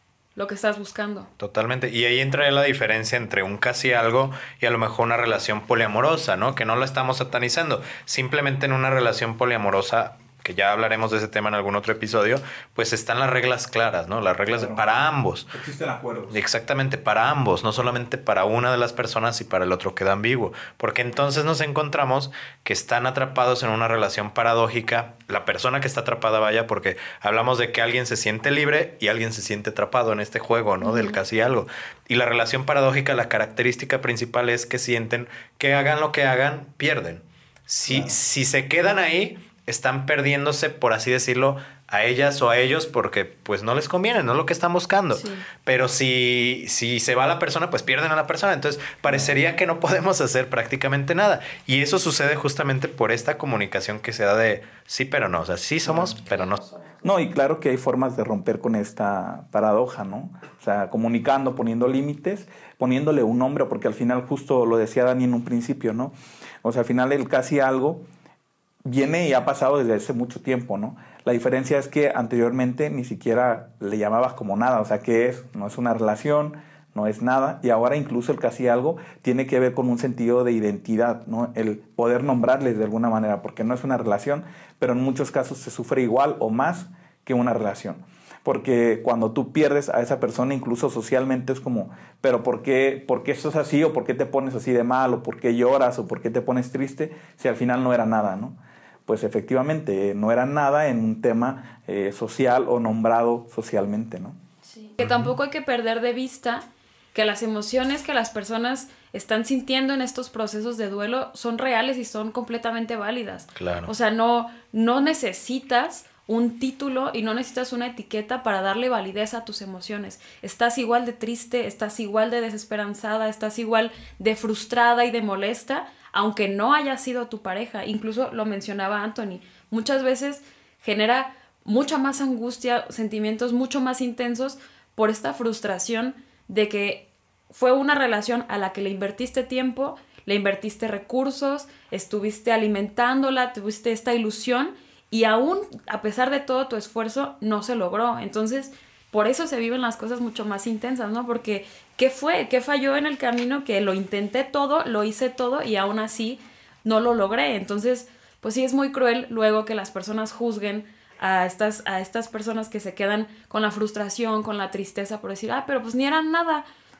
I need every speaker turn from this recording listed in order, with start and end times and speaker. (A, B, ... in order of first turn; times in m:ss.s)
0:00.4-0:01.3 A
0:01.4-0:15.5 B
0:14.5-0:14.8 C
0:15.5-0:16.4 C
0:16.3-0:56.6 B
0:30.8-0:31.2 A
0:37.9-0:38.1 C
0:45.1-0:45.4 A
0:49.0-0:49.4 C
0:55.8-0:56.2 C
0:57.0-1:08.0 C
1:08.8-1:44.4 C
1:44.7-2:46.6 A
1:53.6-1:53.9 B